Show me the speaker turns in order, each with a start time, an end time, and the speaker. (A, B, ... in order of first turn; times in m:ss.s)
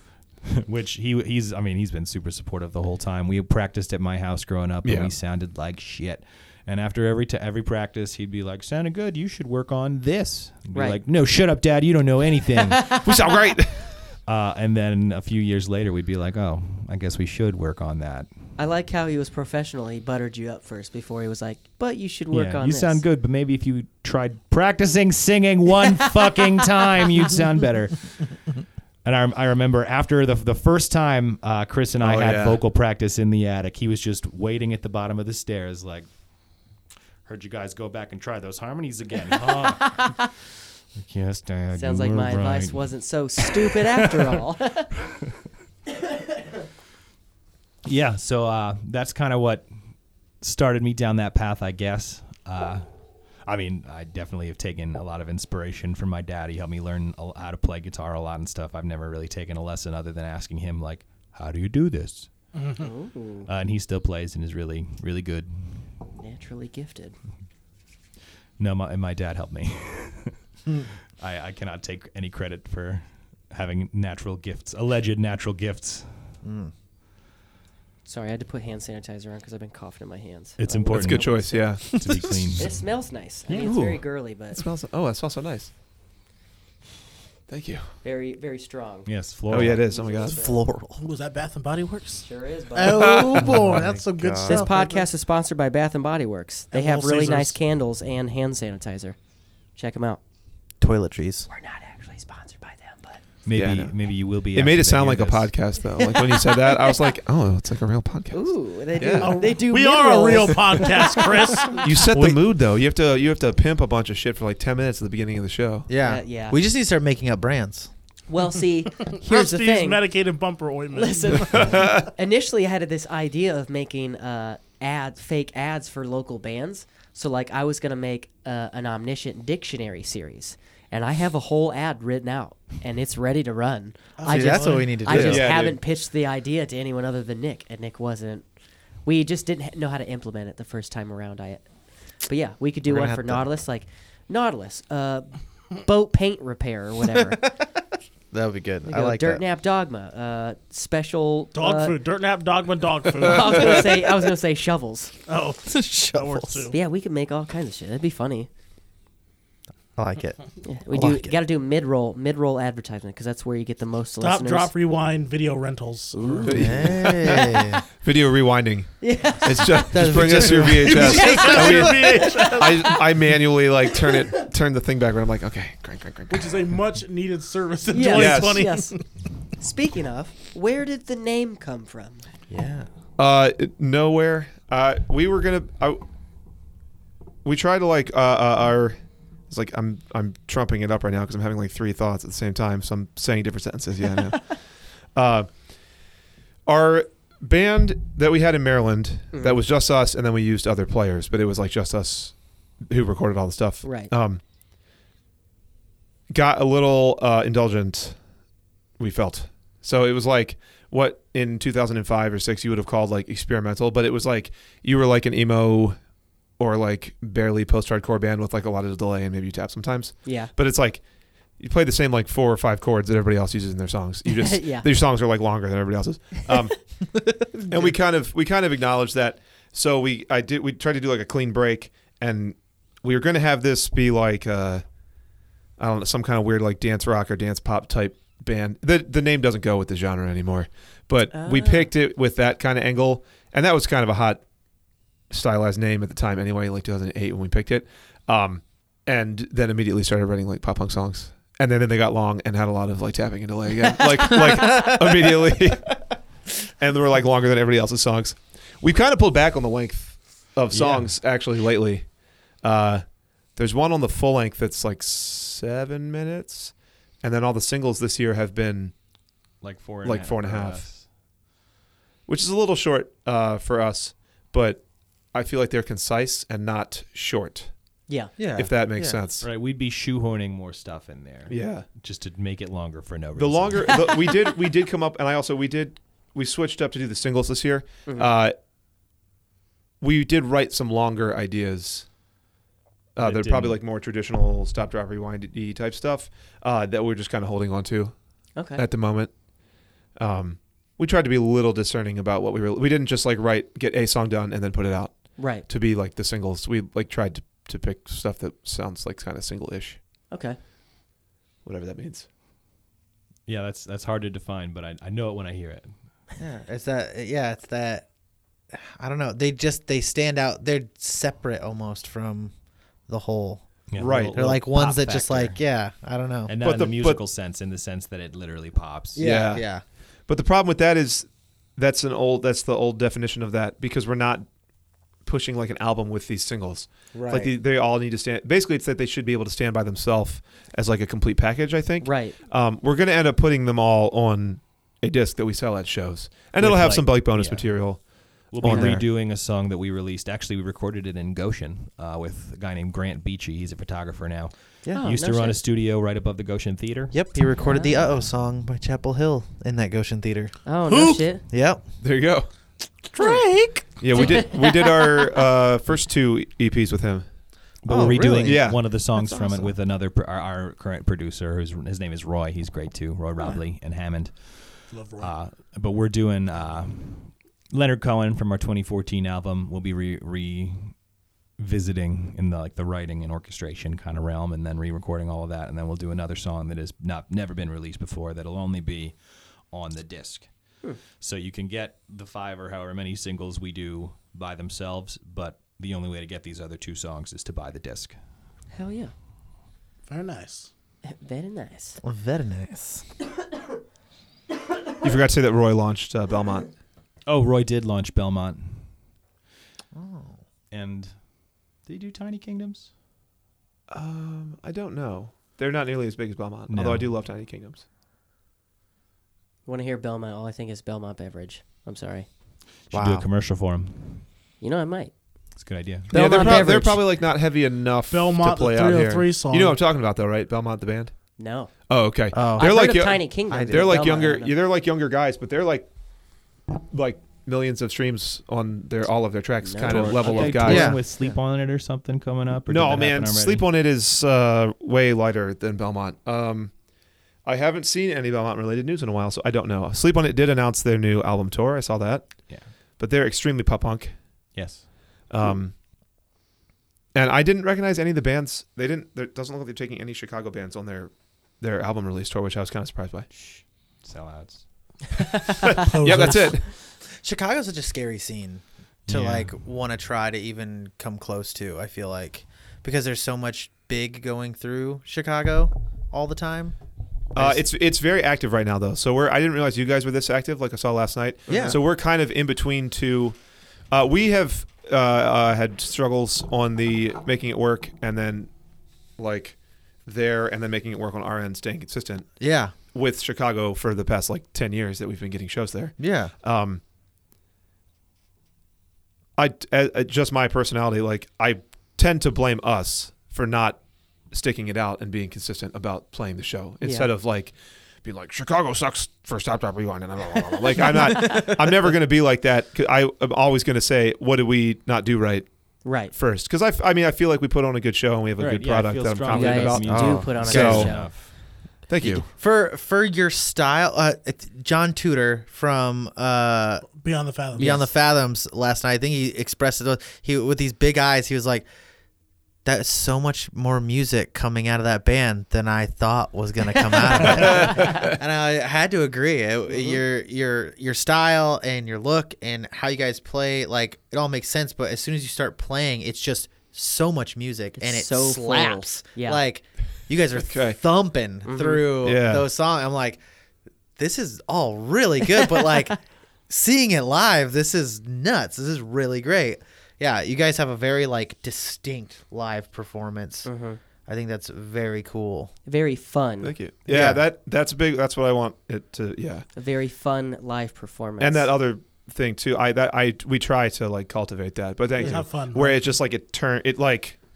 0:00.5-0:13.0 A
0:04.8-0:05.1 B
0:10.7-0:11.0 C
0:12.9-0:14.0 B
0:14.2-0:18.3 A
0:18.6-0:23.0 C
0:22.3-0:28.4 A
0:29.0-0:36.1 A
0:32.0-0:32.6 B
0:37.2-0:40.2 A
0:39.4-0:40.3 C
0:39.4-0:39.7 D
0:41.0-0:44.4 A
0:41.7-0:44.9 C
0:47.8-0:49.7 A
0:50.4-0:52.8 A
0:53.4-1:02.3 A
1:02.5-1:02.8 D
1:02.8-1:03.5 C
1:03.4-1:05.5 A
1:06.2-1:07.2 C
1:08.6-1:10.4 A
1:11.2-1:16.1 A
1:16.4-1:16.7 E
1:18.0-1:21.8 C
1:20.6-1:22.8 A
1:20.9-1:22.2 B
1:22.0-1:22.4 E
1:22.6-1:24.6 C
1:23.6-1:25.7 B
1:27.5-1:27.9 B
1:28.0-1:30.6 C
1:29.0-1:29.8 A
1:29.5-1:30.4 B
1:30.2-1:31.0 E
1:31.0-1:35.1 D
1:32.2-1:33.2 C
1:32.9-1:33.4 B
1:33.4-1:33.9 A
1:33.4-1:34.7 E
1:34.4-1:39.2 C
1:36.7-1:37.6 D
1:39.8-1:40.2 C
1:40.8-1:41.5 E
1:41.5-1:43.2 C
1:43.4-1:45.5 A
1:43.5-1:43.9 B
1:44.5-1:49.4 B
1:46.0-1:46.9 C
1:48.3-1:51.8 C
1:49.1-1:51.9 D
1:51.8-1:55.9 B
1:55.9-1:57.9 E
1:56.0-1:56.6 C
1:58.3-2:00.0 C
1:59.1-2:01.9 D
2:00.9-2:18.4 C
2:01.5-2:02.1 B
2:14.2-2:14.9 D
2:14.3-2:15.5 E
2:15.1-2:15.8 B
2:19.0-2:21.6 C
2:22.3-2:27.5 C
2:22.8-2:23.5 E
2:27.3-2:27.6 E
2:28.3-2:29.4 E
2:28.8-2:32.0 C
2:31.5-2:33.9 D
2:33.2-2:35.1 C
2:35.3-2:36.8 D
2:35.6-2:36.6 E
2:36.6-2:38.5 C
2:40.0-2:41.4 E
2:40.6-2:44.7 C
2:44.2-2:46.5 D
2:46.2-2:46.8 C
2:46.3-2:47.8 E
2:46.5-2:56.5 B
2:49.0-2:50.0 C
2:49.9-2:51.7 E
2:50.5-2:52.9 D
2:50.9-2:53.1 C
2:54.0-2:54.4 C
2:56.3-2:59.0 D
2:57.9-2:59.0 C
2:58.1-2:58.6 B
2:59.6-3:02.2 C
3:02.5-3:02.9 E
3:03.2-3:06.0 B
3:07.4-3:09.0 B
3:09.5-3:14.6 B
3:15.1-3:15.5 B
3:16.6-3:24.4 B
3:19.3-3:19.6 C
3:23.8-3:24.1 C
3:26.3-3:28.2 B
3:29.0-3:36.0 B
3:36.6-3:41.0 B
3:40.2-3:40.5 C
3:41.6-3:46.9 B
3:44.2-3:44.9 C
3:47.7-3:54.8 B
3:55.8-4:04.4 B
4:01.3-4:01.9 C
4:05.3-4:15.9 B
4:14.0-4:15.8 E
4:16.8-4:22.1 B
4:20.7-4:21.2 A
4:22.6-4:28.9 B
4:29.6-4:31.0 A
4:30.0-4:30.9 B
4:32.2-4:37.7 B
4:38.4-4:39.2 E
4:38.6-4:39.5 B
4:39.4-4:44.1 A
4:41.5-4:41.9 B
4:43.4-4:48.6 B
4:48.0-4:48.3 C
4:50.0-4:52.1 B
4:53.1-4:58.2 B
4:53.2-4:53.8 A
4:58.6-4:58.8 C
4:58.7-4:59.3 B
5:00.2-5:10.0 B
5:05.4-5:05.7 C
5:10.3-5:10.6 C
5:11.6-5:12.3 B
5:13.5-5:15.9 A
5:16.4-5:18.1 E
5:18.7-5:22.5 E
5:23.1-5:23.7 E
5:23.9-5:25.6 A
5:24.0-5:24.4 B
5:24.3-5:26.5 E
5:26.5-5:29.3 A
5:26.6-5:27.2 B
5:29.1-5:29.8 E
5:29.2-5:29.6 B
5:30.3-5:34.5 B
5:35.2-5:49.1 B
5:37.1-5:37.6 E
5:42.0-5:42.4 C
5:46.6-5:47.7 A
5:48.5-5:57.1 A
5:48.6-5:49.0 C
5:54.9-5:55.6 C
5:57.1-6:00.6 E
5:57.6-5:58.0 C
6:00.6-6:01.4 C
6:00.9-6:01.2 D
6:01.5-6:01.8 E
6:02.0-6:02.5 B
6:03.2-6:03.8 E
6:03.2-6:03.5 D
6:04.0-6:07.3 B
6:04.1-6:05.4 C
6:07.8-6:21.0 A
6:07.9-6:09.7 E
6:08.4-6:08.9 B
6:14.9-6:15.3 D
6:21.6-6:30.5 A
6:31.2-6:38.2 A
6:38.7-6:39.1 C
6:40.0-6:40.7 D
6:41.0-6:42.0 C
6:42.0-6:43.0 E
6:45.0-6:46.8 B
6:47.3-6:48.9 A
6:49.9-6:50.4 E
6:50.7-6:51.2 A
6:51.8-6:52.9 A
6:53.9-6:57.8 B
6:56.7-6:57.1 A
6:59.6-7:02.3 C
7:02.9-7:04.2 A
7:02.9-7:03.3 E
7:04.6-7:05.1 C
7:05.6-7:06.2 A
7:06.1-7:07.0 C
7:06.1-7:11.3 B
7:06.4-7:06.9 E
7:08.1-7:09.8 D
7:11.4-7:11.7 C
7:11.9-7:15.9 B
7:12.3-7:12.8 E
7:12.5-7:14.5 C
7:13.5-7:13.9 E
7:16.9-7:21.0 B
7:19.6-7:20.5 C
7:19.8-7:23.7 A
7:20.6-7:21.4 E
7:22.7-7:26.7 B
7:27.4-7:32.4 B
7:33.0-7:34.2 B
7:34.5-7:34.9 A
7:35.3-7:35.7 B
7:37.1-7:43.3 B
7:43.3-7:45.0 A
7:45.7-7:46.6 B
7:45.8-7:46.6 D
7:47.1-7:56.8 E
7:49.1-7:49.5 A
7:57.3-8:03.4 B
7:57.3-7:57.6 E
8:01.5-8:01.8 C
8:01.5-8:01.8 E
8:03.9-8:08.5 B
8:09.2-8:12.3 B
8:12.4-8:12.7 E
8:12.9-8:16.8 B
8:16.0-8:16.3 E
8:19.4-8:35.5 B
8:26.8-8:27.1 C
8:30.8-8:31.4 C
8:35.8-8:36.1 C
8:36.1-8:41.0 B
8:38.4-8:41.3 A
8:39.3-8:41.1 C
8:39.8-8:40.8 E
8:41.9-8:42.2 B
8:42.0-8:42.3 C
8:42.3-8:46.9 E
8:46.9-8:47.8 D
8:47.5-8:51.6 E
8:47.6-8:47.9 C
8:52.6-9:13.2 E
8:57.1-8:58.2 B
8:59.7-9:00.0 C
9:07.8-9:09.4 C
9:10.4-9:10.8 B
9:11.4-9:11.9 C
9:12.0-9:12.4 B
9:14.0-9:16.0 E
9:16.5-9:23.5 E
9:23.4-9:23.8 C
9:24.0-9:25.5 E
9:25.7-9:26.5 C
9:26.4-9:29.5 B
9:26.9-9:27.2 E
9:29.6-9:31.5 C
9:31.2-9:37.2 B
9:35.0-9:35.8 D